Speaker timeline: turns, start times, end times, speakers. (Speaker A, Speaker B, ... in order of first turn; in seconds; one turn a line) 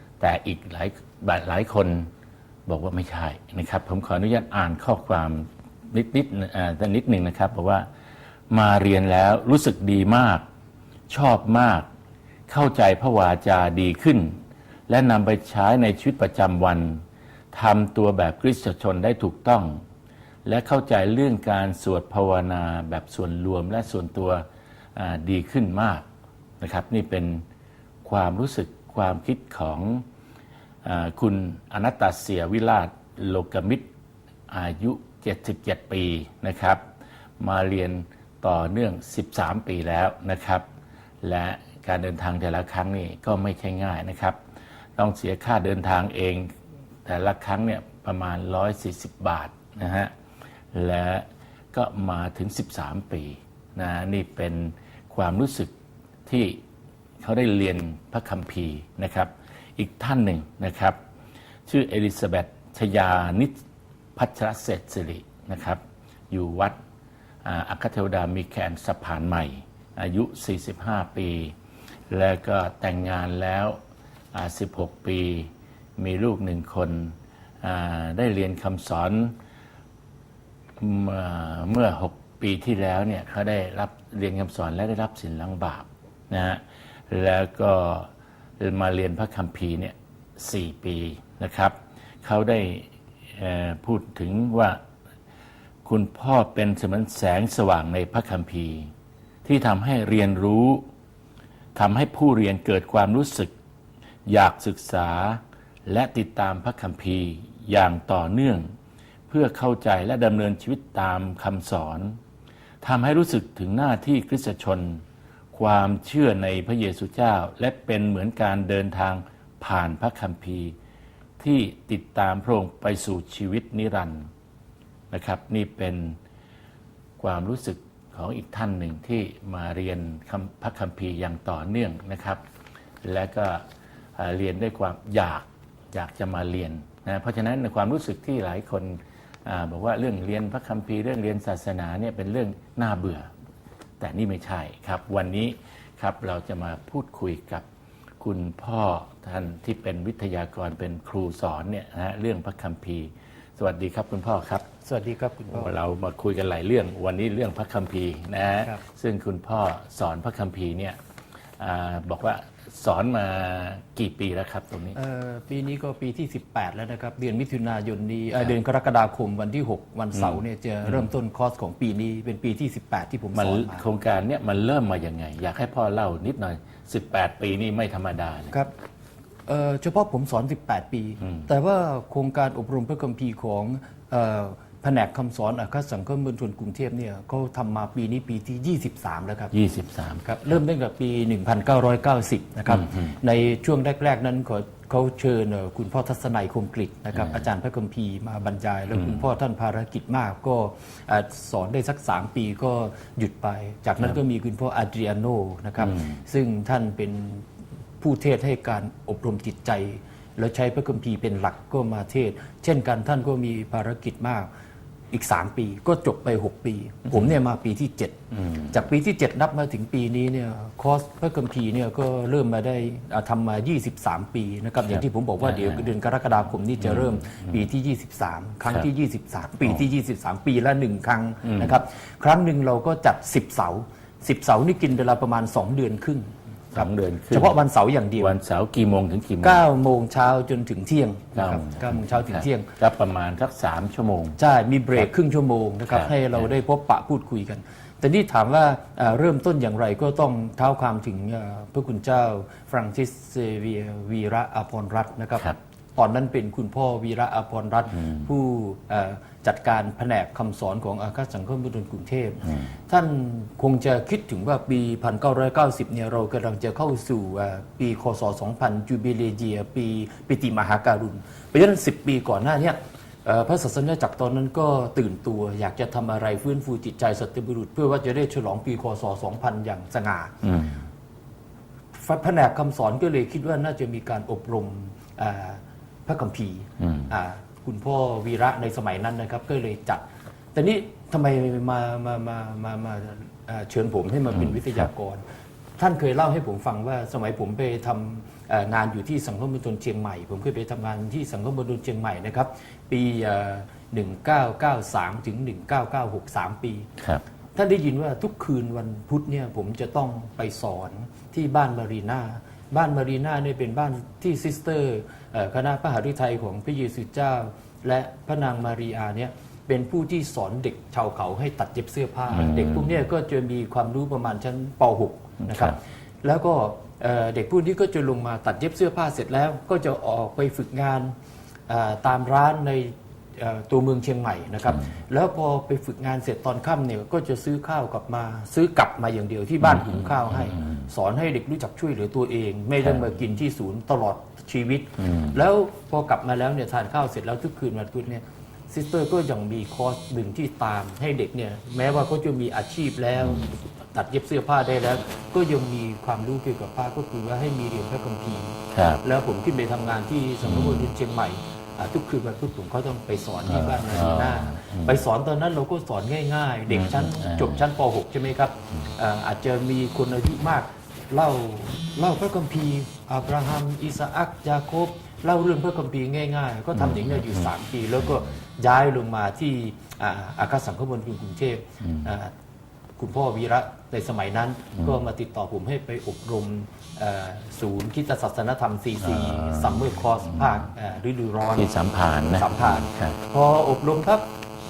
Speaker A: 0.2-2.1
Speaker A: 2.7-7.9
Speaker A: 8.5-10.4
Speaker A: 11.1-11.9
Speaker A: 12.5-14.4
Speaker A: 14.9-17.0
Speaker A: 17.5-19.8
Speaker A: 20.4-24.4
Speaker A: 24.9-26.1
Speaker A: 26.6-27.4
Speaker A: 28.0-30.1
Speaker A: 30.9-33.9
Speaker A: 34.5-36.8
Speaker A: 37.4-40.7
Speaker A: 41.2-44.4
Speaker A: 45.0-46.5
Speaker A: 47.1-50.1
Speaker A: 50.7-55.7
Speaker A: 56.3-56.6
Speaker A: 57.2-61.0
Speaker A: 61.7-63.6
Speaker A: 64.2-66.8
Speaker A: 67.5-71.5
Speaker A: 72.1-73.8
Speaker A: 74.3-79.3
Speaker A: 80.8-88.1
Speaker A: 88.6-94.8
Speaker A: 95.8-98.9
Speaker A: 99.5-100.8
Speaker A: 101.8-103.5
Speaker A: 104.3-108.7
Speaker A: 109.3-112.2
Speaker A: 112.8-120.8
Speaker A: 121.4-124.3
Speaker A: 125.1-126.2
Speaker A: 127.2-132.4
Speaker A: 133.0-133.6
Speaker A: 134.2-143.3
Speaker A: 144.0-147.7
Speaker A: 148.2-154.7
Speaker B: 154.8-155.8
Speaker A: 155.5-161.0
Speaker A: 161.6-165.0
Speaker B: 164.9-173.9
Speaker A: 170.2-171.1
Speaker A: 173.3-178.5
Speaker B: 179.5-189.5
Speaker A: 189.5-190.2
Speaker B: 190.2-207.4
Speaker A: 192.7-193.1
Speaker A: 197.2-197.4
Speaker A: 205.9-206.2
Speaker B: 208.0-214.5
Speaker B: 215.1-238.3
Speaker A: 225.5-225.8
Speaker A: 231.4-231.8
Speaker A: 236.7-237.6
Speaker A: 238.2-239.6
Speaker B: 239.4-242.7
Speaker A: 241.4-244.4
Speaker B: 244.4-280.5
Speaker A: 245.9-246.4
Speaker A: 280.4-280.8
Speaker B: 281.9-295.2
Speaker A: 286.8-287.1
Speaker A: 294.3-294.9
Speaker B: 295.8-306.9
Speaker B: 307.6-331.1
Speaker A: 322.3-323.0
Speaker A: 325.4-325.8
Speaker B: 331.7-382.3
Speaker A: 340.5-340.9
Speaker A: 345.0-345.4
Speaker A: 358.7-359.0
Speaker A: 360.4-360.9
Speaker A: 363.5-365.0
Speaker A: 366.7-367.6
Speaker A: 376.7-377.5
Speaker A: 378.1-378.3
Speaker A: 381.8-382.1
Speaker B: 383.0-391.7
Speaker A: 389.1-390.7
Speaker A: 391.6-393.2
Speaker B: 392.3-394.3